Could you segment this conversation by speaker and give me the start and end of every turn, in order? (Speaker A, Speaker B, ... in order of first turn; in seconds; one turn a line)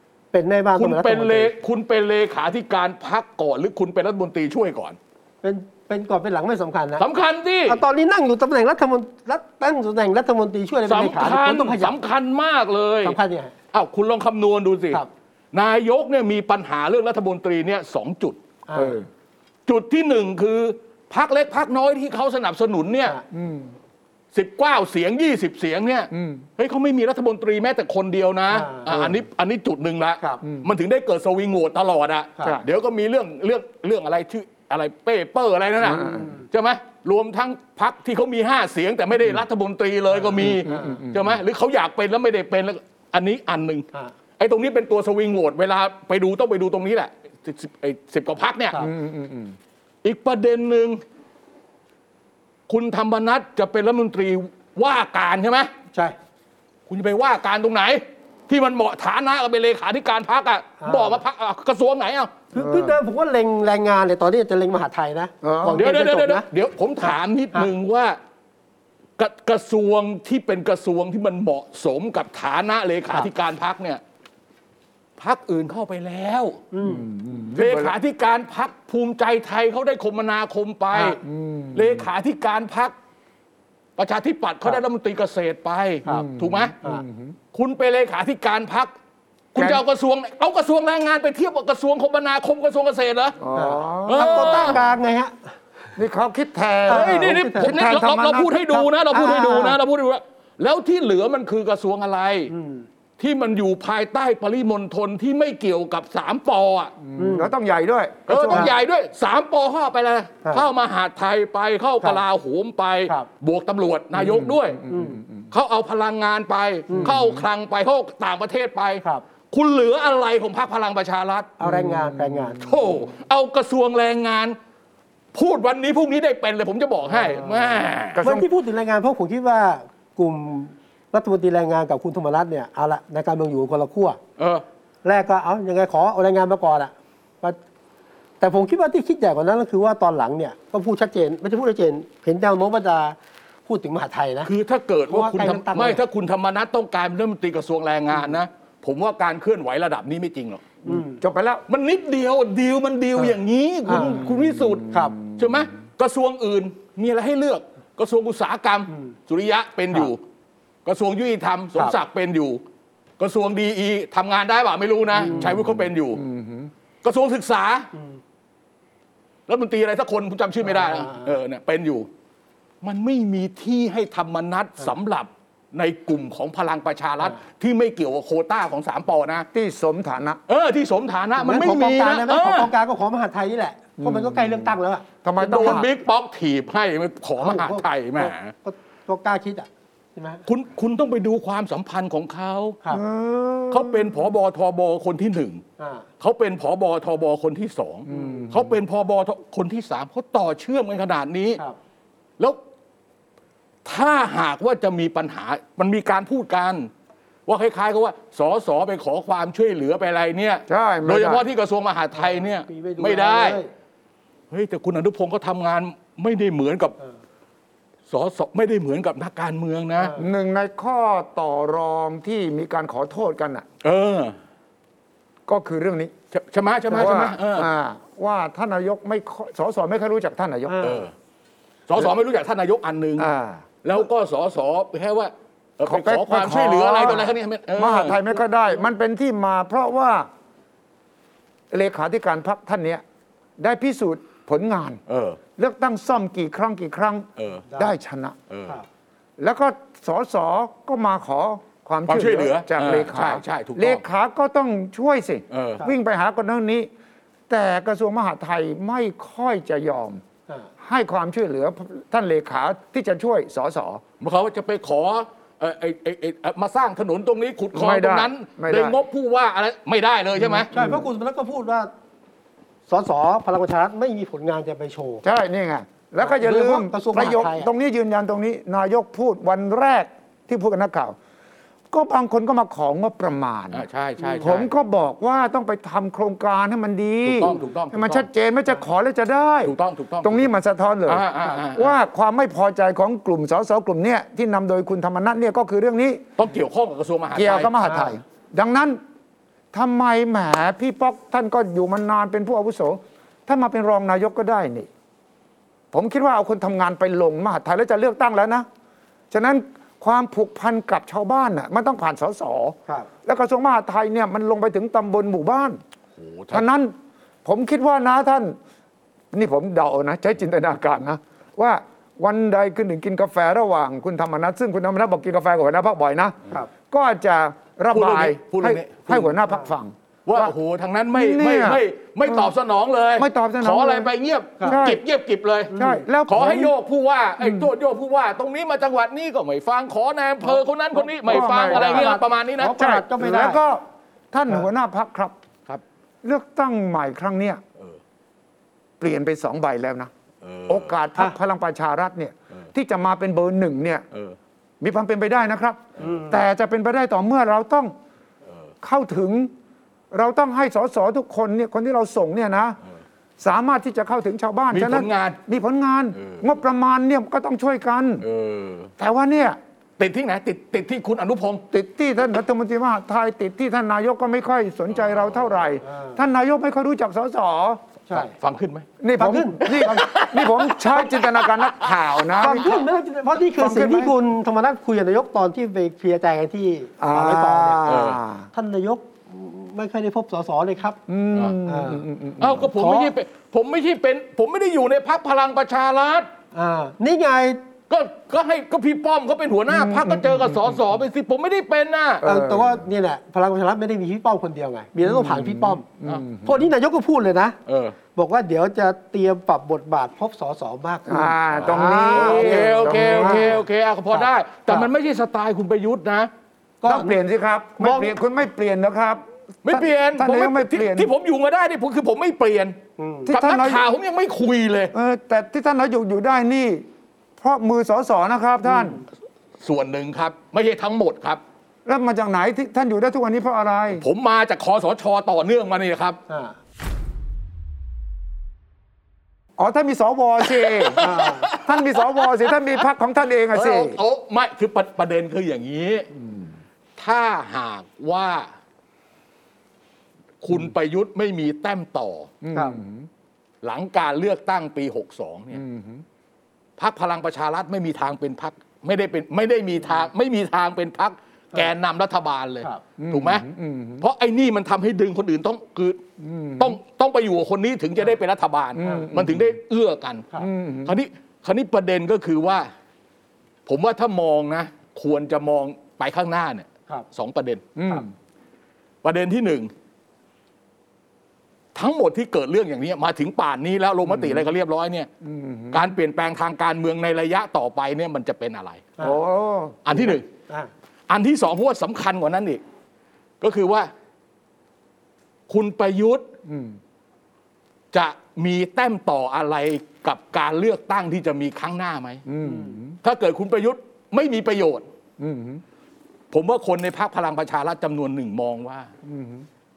Speaker A: 0.3-1.5
Speaker B: 0.8-5.0
Speaker A: 5.4-7.0
Speaker B: 7.0-7.8
Speaker A: 7.7-12.0
Speaker B: 10.9-13.2
Speaker A: 13.0-13.5
Speaker B: 13.7-18.4
Speaker A: 18.7-19.0
Speaker C: 18.8-19.1
Speaker B: 19.7-23.2
Speaker C: 23.3-23.7
Speaker B: 24.3-43.9
Speaker C: 26.1-26.5
Speaker A: 28.5-28.9
Speaker C: 28.9-29.2
Speaker C: 30.4-30.7
Speaker C: 35.8-36.3
Speaker A: 35.9-36.4
Speaker A: 40.2-41.0
Speaker C: 40.4-41.4
Speaker B: 44.4-48.8
Speaker C: 48.8-49.6
Speaker B: 50.0-51.0
Speaker B: 52.7-55.7
Speaker B: 56.9-62.4
Speaker A: 60.8-61.2
Speaker A: 62.5-66.5
Speaker C: 62.5-63.0
Speaker C: 65.4-65.8
Speaker B: 65.8-68.2
Speaker A: 67.0-67.7
Speaker B: 69.2-74.0
Speaker B: 75.2-76.6
Speaker A: 76.7-77.1
Speaker C: 76.8-78.0
Speaker B: 77.5-81.2
Speaker A: 80.9-81.2
Speaker C: 81.2-82.1
Speaker B: 81.7-82.9
Speaker B: 84.0-86.8
Speaker C: 86.1-87.4
Speaker B: 87.5-88.9
Speaker B: 89.5-93.4
Speaker C: 89.6-89.8
Speaker C: 93.4-94.8
Speaker A: 93.5-95.5
Speaker B: 94.1-94.8
Speaker C: 96.0-98.6
Speaker A: 96.9-97.8
Speaker B: 96.9-102.5
Speaker A: 98.7-99.8
Speaker A: 102.5-102.9
Speaker B: 103.2-107.0
Speaker C: 107.0-108.7
Speaker A: 107.2-107.5
Speaker B: 108.3-114.8
Speaker C: 114.2-115.5
Speaker A: 114.9-115.2
Speaker B: 115.5-121.6
Speaker C: 117.0-117.5
Speaker A: 121.6-122.6
Speaker C: 121.6-122.9
Speaker B: 122.6-124.6
Speaker B: 125.3-128.2
Speaker C: 128.2-128.5
Speaker A: 128.2-134.2
Speaker B: 134.4-134.6
Speaker A: 135.0-137.6
Speaker A: 138.4-144.5
Speaker B: 144.4-150.7
Speaker A: 145.1-146.0
Speaker A: 150.9-151.2
Speaker C: 150.9-151.6
Speaker B: 151.7-160.2
Speaker A: 153.9-154.3
Speaker C: 154.1-155.5
Speaker A: 154.9-155.2
Speaker B: 160.8-162.6
Speaker B: 163.2-166.2
Speaker A: 165.2-165.6
Speaker C: 165.3-166.7
Speaker B: 167.0-167.9
Speaker B: 169.5-172.1
Speaker A: 170.6-171.3
Speaker B: 172.8-179.5
Speaker C: 179.5-180.4
Speaker B: 180.5-182.7
Speaker A: 181.4-185.1
Speaker C: 184.0-185.9
Speaker B: 185.4-188.5
Speaker A: 187.4-190.4
Speaker B: 190.5-192.8
Speaker C: 192.9-194.3
Speaker B: 193.7-195.6
Speaker A: 195.8-196.1
Speaker B: 196.2-201.6
Speaker C: 198.1-198.8
Speaker A: 198.1-198.4
Speaker B: 203.8-206.9
Speaker B: 207.5-213.6
Speaker C: 210.7-211.4
Speaker A: 212.2-213.7
Speaker B: 214.5-216.9
Speaker B: 218.1-220.1
Speaker A: 220.0-220.3
Speaker C: 220.2-223.7
Speaker B: 223.8-224.3
Speaker C: 225.5-226.1
Speaker B: 226.3-227.7
Speaker C: 226.9-230.9
Speaker A: 230.7-231.0
Speaker B: 230.8-231.1
Speaker B: 231.9-233.3
Speaker C: 233.2-233.7
Speaker B: 233.8-238.2
Speaker C: 235.8-240.3
Speaker C: 241.7-243.0
Speaker C: 243.6-245.0
Speaker B: 245.1-245.4
Speaker C: 245.6-248.4
Speaker B: 247.4-247.7
Speaker B: 248.5-248.8
Speaker C: 249.4-256.9
Speaker B: 252.1-254.0
Speaker B: 255.5-255.8
Speaker C: 257.5-260.2
Speaker C: 260.8-264.0
Speaker B: 264.2-270.7
Speaker C: 267.7-269.0
Speaker C: 270.5-271.0
Speaker A: 270.7-271.9
Speaker A: 272.9-275.2
Speaker C: 275.2-281.2
Speaker A: 276.2-277.7
Speaker C: 281.9-283.9
Speaker B: 283.7-284.7
Speaker A: 284.2-284.5
Speaker C: 284.4-296.2
Speaker B: 287.2-288.3
Speaker B: 289.6-290.5
Speaker B: 291.1-291.9
Speaker B: 296.4-297.7
Speaker C: 297.3-299.0
Speaker A: 297.8-298.1
Speaker C: 299.7-304.9
Speaker C: 305.9-308.7
Speaker C: 309.3-315.8
Speaker B: 316.2-316.7
Speaker C: 316.5-316.9
Speaker C: 317.4-318.6
Speaker C: 319.3-330.5
Speaker B: 327.9-329.3
Speaker B: 330.3-335.7
Speaker C: 331.1-332.5
Speaker C: 333.2-334.1
Speaker C: 334.7-335.0
Speaker A: 335.7-336.0
Speaker C: 335.7-336.7
Speaker B: 336.3-342.9
Speaker C: 337.4-337.7
Speaker A: 340.5-343.6
Speaker C: 341.2-345.4
Speaker C: 346.2-347.6
Speaker C: 349.0-350.1
Speaker B: 350.4-350.9
Speaker C: 350.7-354.0
Speaker C: 354.8-357.9
Speaker A: 356.0-356.4
Speaker C: 358.8-359.5
Speaker C: 360.1-362.8
Speaker C: 363.4-368.3
Speaker B: 364.7-365.4
Speaker B: 366.2-366.4
Speaker B: 368.2-368.9
Speaker C: 369.0-369.6
Speaker B: 370.0-371.6
Speaker C: 371.7-377.8
Speaker B: 375.0-375.7
Speaker A: 375.8-376.2
Speaker A: 378.1-378.3
Speaker B: 378.1-378.9
Speaker C: 379.0-382.8
Speaker A: 379.2-379.9
Speaker B: 379.7-382.6
Speaker A: 382.4-387.8
Speaker C: 383.5-384.1
Speaker C: 387.0-388.5
Speaker B: 387.9-388.2
Speaker A: 388.5-391.0
Speaker C: 391.1-393.1
Speaker A: 391.7-392.0
Speaker B: 392.4-396.3
Speaker A: 396.5-397.6
Speaker B: 397.9-402.2
Speaker C: 399.7-400.8
Speaker C: 402.2-402.8
Speaker A: 402.2-405.9
Speaker C: 405.0-406.6
Speaker A: 406.4-407.6
Speaker B: 407.7-408.0
Speaker A: 408.1-413.6
Speaker C: 411.1-413.6
Speaker B: 411.6-416.3
Speaker A: 414.1-414.9
Speaker A: 416.8-417.2
Speaker C: 416.9-421.1
Speaker A: 417.8-418.1
Speaker B: 419.6-422.8
Speaker A: 423.0-423.3
Speaker C: 423.3-423.9
Speaker B: 423.3-424.9
Speaker C: 424.9-426.9
Speaker C: 427.4-429.0
Speaker A: 428.7-429.0
Speaker B: 429.6-431.4
Speaker C: 431.9-434.1
Speaker B: 434.0-436.2
Speaker A: 436.3-436.6
Speaker C: 439.6-444.0
Speaker B: 440.6-442.6
Speaker A: 441.0-441.5
Speaker B: 443.5-446.1
Speaker C: 446.1-446.5
Speaker B: 447.0-448.5
Speaker B: 450.4-452.3
Speaker C: 452.4-453.1
Speaker B: 453.6-455.6
Speaker C: 455.5-456.0
Speaker B: 456.8-463.5
Speaker C: 463.0-464.1
Speaker B: 464.0-466.0
Speaker C: 466.2-466.8
Speaker B: 466.6-470.3
Speaker C: 468.8-469.6
Speaker A: 468.8-469.1
Speaker C: 470.4-471.0
Speaker B: 470.9-472.7
Speaker B: 473.7-477.7
Speaker C: 477.8-478.1
Speaker B: 479.0-479.7
Speaker B: 481.8-485.1
Speaker C: 484.1-484.5
Speaker C: 485.2-485.9
Speaker B: 485.7-488.9
Speaker C: 489.0-490.2
Speaker B: 489.9-490.3
Speaker B: 491.1-492.6
Speaker B: 493.4-493.9
Speaker B: 495.5-496.2
Speaker C: 496.5-496.8
Speaker B: 497.9-502.2
Speaker C: 502.3-503.0
Speaker A: 502.4-502.8
Speaker B: 503.0-504.9
Speaker C: 505.2-505.6
Speaker B: 506.3-508.9
Speaker C: 509.0-509.5